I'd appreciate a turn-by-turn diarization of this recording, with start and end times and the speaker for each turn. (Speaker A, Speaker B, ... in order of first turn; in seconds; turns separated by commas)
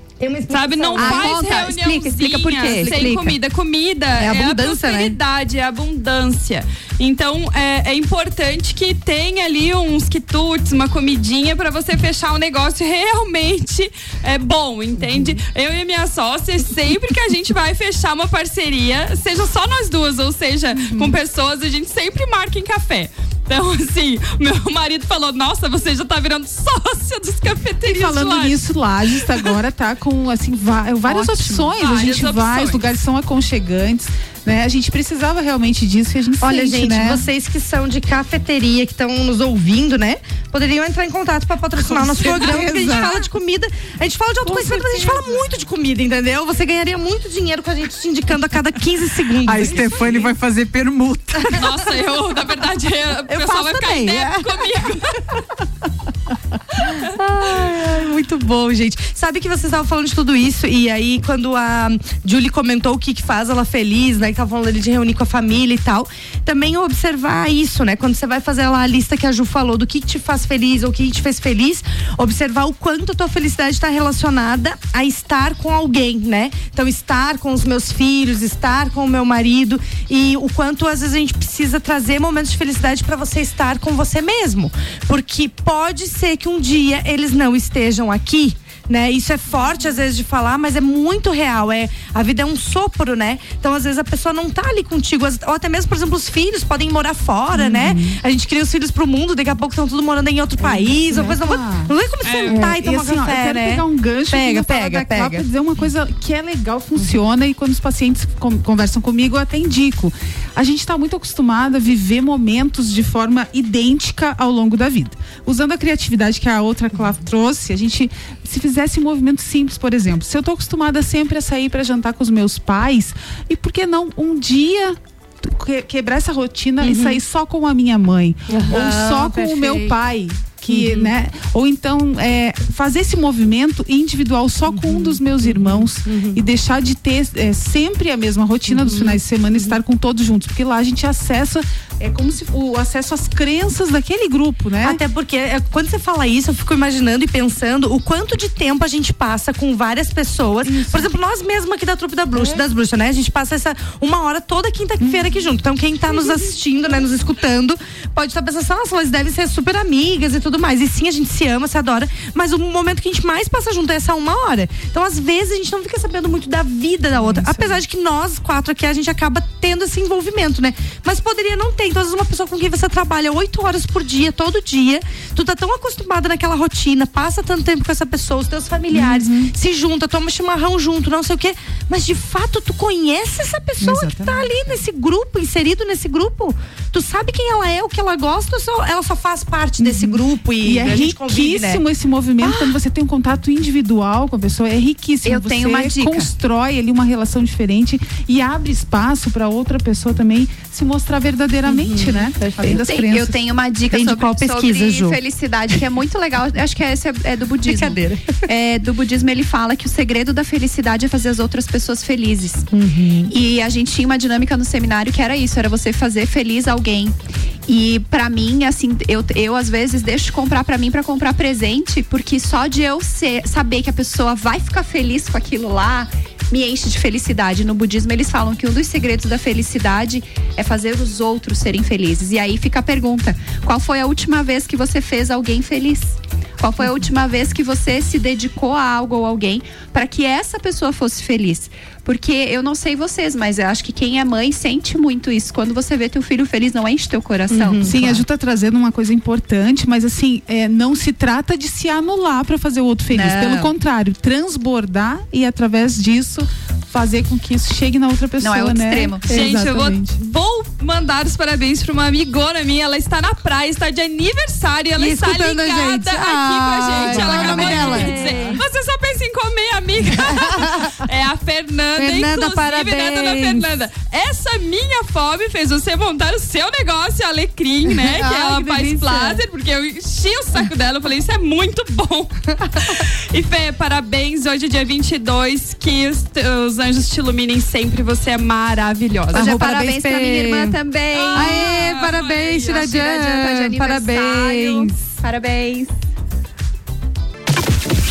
Speaker A: 0.2-1.6, Speaker B: 0.5-28.6, Speaker C: 0.9-3.4, Speaker A: 2.7-3.1, Speaker A: 4.2-5.2, Speaker D: 20.8-21.1, Speaker D: 27.9-37.2, Speaker C: 31.1-31.7, Speaker B: 31.8-32.8, Speaker A: 36.4-50.1, Speaker D: 41.8-43.3, Speaker D: 44.4-45.6, Speaker E: 49.4-51.6, Speaker B: 51.5-55.4, Speaker A: 53.3-54.9, Speaker A: 56.9-105.4, Speaker D: 97.5-98.2, Speaker D: 100.6-101.9, Speaker B: 102.2-102.6, Speaker D: 102.5-145.0, Speaker A: 126.8-127.2, Speaker A: 128.5-130.0, Speaker A: 130.7-131.1, Speaker A: 134.7-136.4, Speaker A: 138.7-139.8, Speaker A: 144.8-191.8, Speaker D: 150.6-151.1, Speaker D: 152.3-152.7, Speaker D: 155.0-157.1, Speaker D: 167.2-167.8, Speaker D: 178.9-179.5, Speaker D: 183.8-184.8, Speaker D: 189.8-203.3, Speaker C: 195.2-196.3, Speaker A: 201.7-202.8, Speaker C: 202.8-212.7, Speaker A: 203.9-205.2, Speaker A: 207.7-208.4, Speaker A: 212.7-213.3, Speaker C: 213.3-217.1, Speaker C: 217.7-247.9, Speaker A: 247.5-248.2, Speaker D: 247.9-260.1, Speaker C: 253.1-253.7, Speaker C: 258.4-259.5, Speaker B: 259.3-289.4, Speaker A: 265.0-268.6, Speaker D: 266.9-268.5, Speaker A: 270.0-270.9, Speaker A: 271.9-273.7, Speaker A: 277.9-279.4, Speaker A: 282.6-283.0, Speaker A: 289.3-290.7, Speaker C: 289.3-291.9, Speaker B: 291.1-292.7, Speaker A: 291.3-294.9, Speaker C: 292.5-295.9